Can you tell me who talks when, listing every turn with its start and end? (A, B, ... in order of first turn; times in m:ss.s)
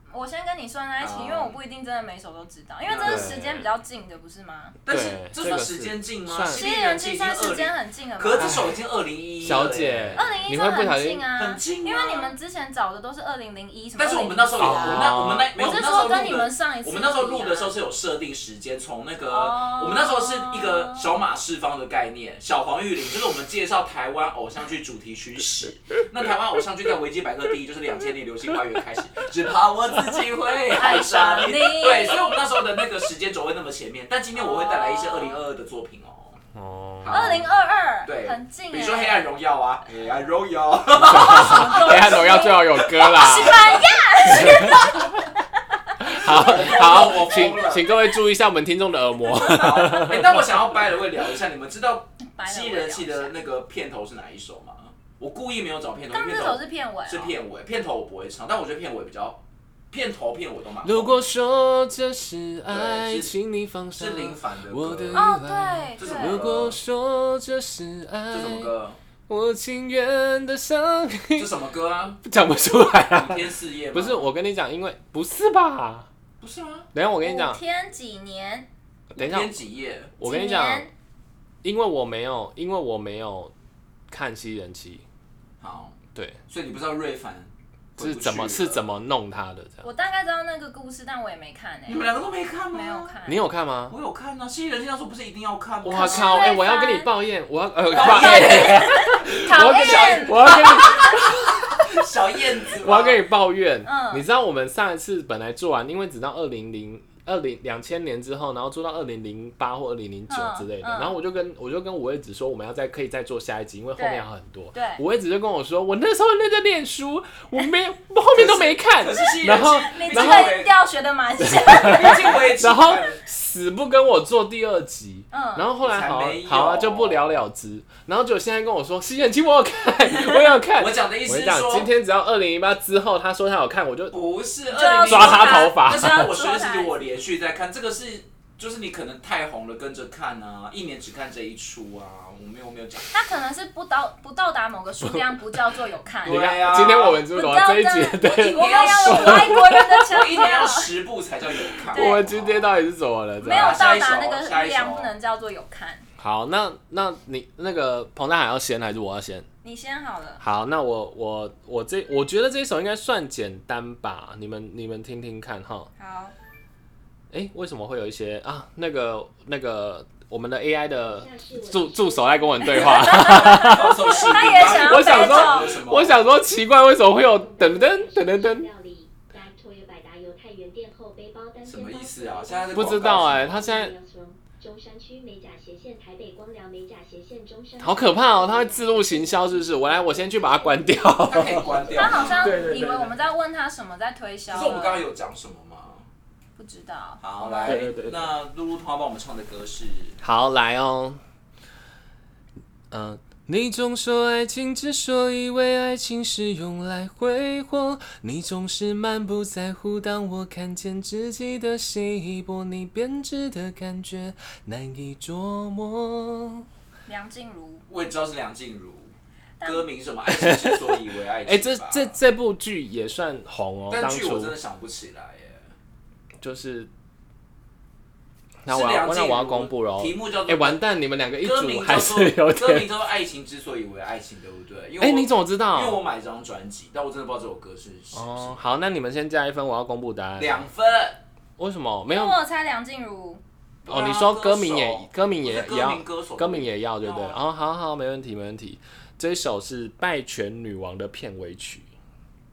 0:00.1-0:04.8 A
0:01.0-0:01.6 B
0:02.9-0:03.5 B
0:03.0-0:03.6 C
0:04.8-0:10.5 B
0:04.9-0:06.7 C
0:06.5-0:08.7 A
0:08.4-0:08.8 C
0:09.4-0:11.2 C
0:10.2-0:17.7 A
0:11.4-0:12.3 B
0:14.0-0:36.4 B
0:14.6-0:15.5 C
0:19.3-0:21.1 A
0:30.7-0:32.3 A
0:34.4-0:35.4 A
0:36.6-0:37.5 C
0:37.0-0:37.5 B
0:37.1-0:39.3 A
0:38.0-0:44.8 B
0:41.1-0:45.0 C
0:41.2-0:45.2 A
0:46.0-0:50.4 C
0:46.1-0:48.0 B
0:49.3-1:01.2 B
0:52.3-0:53.4 A
0:56.1-0:57.3 A
1:00.8-1:08.7 C
1:02.7-1:03.4 B
1:04.0-1:05.3 B
1:05.1-1:06.4 A
1:06.0-1:06.8 B
1:08.3-1:09.0 B
1:09.3-1:11.5 C
1:11.4-1:12.2 B
1:12.2-1:16.1 C
1:12.9-1:14.3 B
1:16.4-1:16.9 B
1:16.9-1:17.6 C
1:17.2-1:18.7 A
1:19.1-1:19.6 C
1:19.2-1:20.1 B
1:20.2-1:20.9 C
1:20.2-1:20.9 A
1:21.6-1:23.5 C
1:24.1-1:25.0 C
1:25.6-1:28.9 B
1:26.2-1:26.4 C
1:28.0-1:29.9 C
1:29.8-1:32.0 A
1:31.9-1:33.2 B
1:32.7-1:33.4 A
1:33.3-1:34.0 C
1:33.9-1:36.5 B
1:35.8-1:41.9 C
1:35.9-1:37.1 A
1:37.9-1:43.2 B
1:38.0-1:40.6 A
1:42.7-2:00.6 C
1:43.8-1:44.3 A
1:50.3-1:51.2 A
1:54.0-1:55.0 A
1:58.3-2:00.8 B
1:59.9-2:02.4 A
2:01.4-2:14.2 C
2:01.7-2:03.2 B
2:05.3-2:05.7 A
2:05.8-2:07.3 B
2:10.8-2:11.9 B
2:14.1-2:23.2 B
2:14.7-2:17.0 A
2:15.0-2:16.3 C
2:23.1-2:30.9 A
2:25.0-2:25.6 C
2:26.2-2:27.3 B
2:26.2-2:30.1 C
2:28.2-2:32.8 B
2:31.9-2:32.3 A
2:31.9-2:33.9 C
2:33.4-2:36.1 A
2:33.4-2:35.1 B
2:36.2-2:39.5 C
2:39.6-2:40.4 A
2:40.4-2:45.9 C
2:46.0-2:46.3 A
2:47.3-2:58.7 C
2:51.1-2:53.2 D
2:52.7-2:55.8 A
2:52.8-2:56.2 B
2:56.5-3:12.6 D
3:01.6-3:03.6 B
3:02.7-3:03.9 C
3:07.8-3:13.2 C
3:11.2-3:12.6 B
3:12.0-3:15.0 A
3:14.5-3:16.1 B
3:16.6-3:17.9 A
3:17.2-3:20.2 B
3:17.6-3:18.3 C
3:20.2-3:21.2 C
3:22.9-3:36.7 C
3:37.1-3:37.8 A
3:37.9-3:42.2 B
3:39.6-3:39.9 A
3:40.3-3:44.6 C
3:43.9-3:45.7 B
3:46.4-3:46.9 C
3:48.6-3:52.9 C
3:48.7-3:50.8 B
3:51.4-3:58.6 B
3:55.0-3:56.0 C
3:58.1-4:00.7 C
4:00.4-4:01.2 B
4:01.6-4:02.4 C
4:02.1-4:03.4 A
4:03.9-4:07.4 B
4:03.9-4:11.9 C